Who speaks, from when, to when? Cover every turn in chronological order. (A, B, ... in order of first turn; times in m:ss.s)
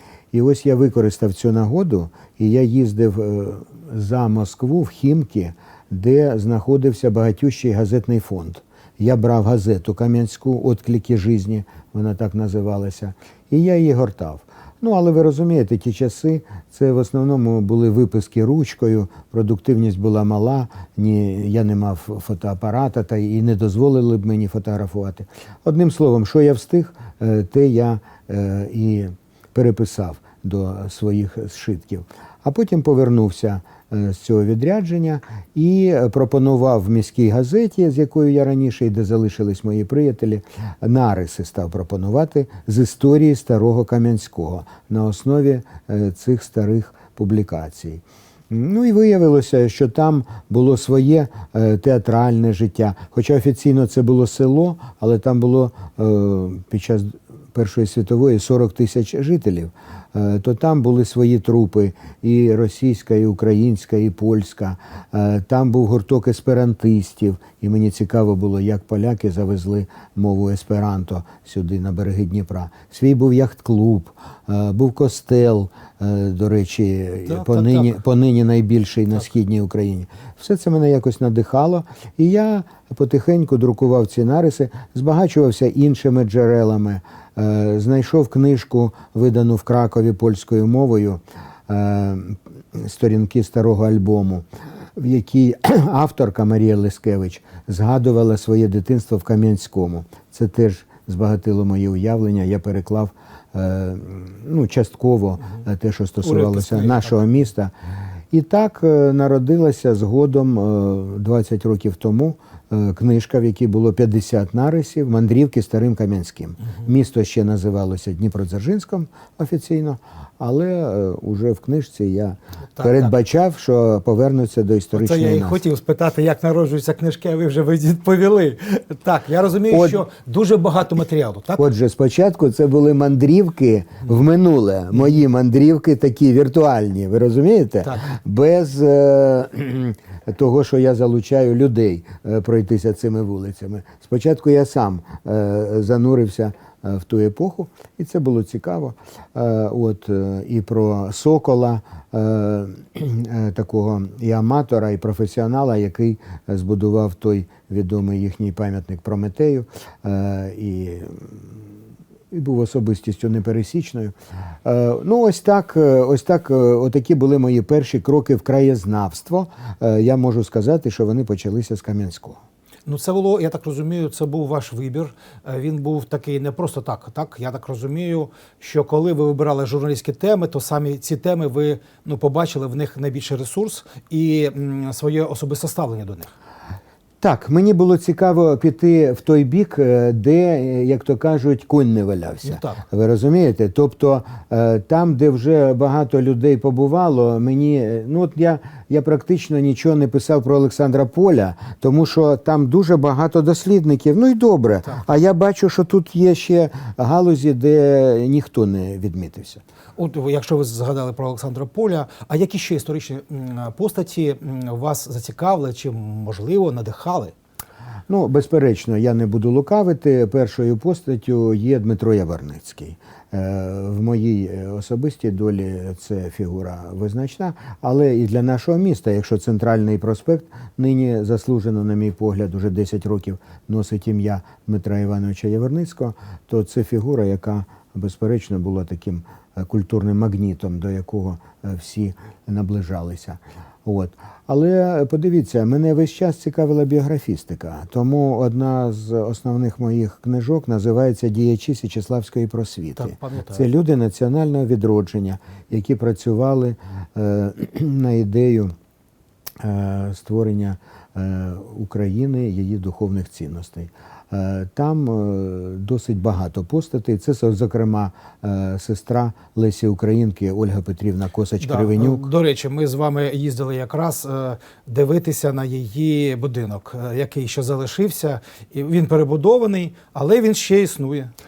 0:00.3-1:47.7 A
1:17.3-1:17.9 B
1:46.2-1:47.4 B
1:48.3-2:05.6 A
2:02.8-2:03.1 B
2:04.9-2:11.7 B
2:09.7-2:10.0 A
2:11.6-2:41.7 A
2:42.3-2:44.1 A
2:44.6-2:52.4 A
2:52.9-3:06.3 B
3:07.2-3:29.6 A
3:12.4-3:12.8 B
3:30.0-3:37.3 B
3:38.1-4:18.7 A
4:13.0-4:13.7 B
4:19.6-4:32.3 A
4:31.6-4:41.3 B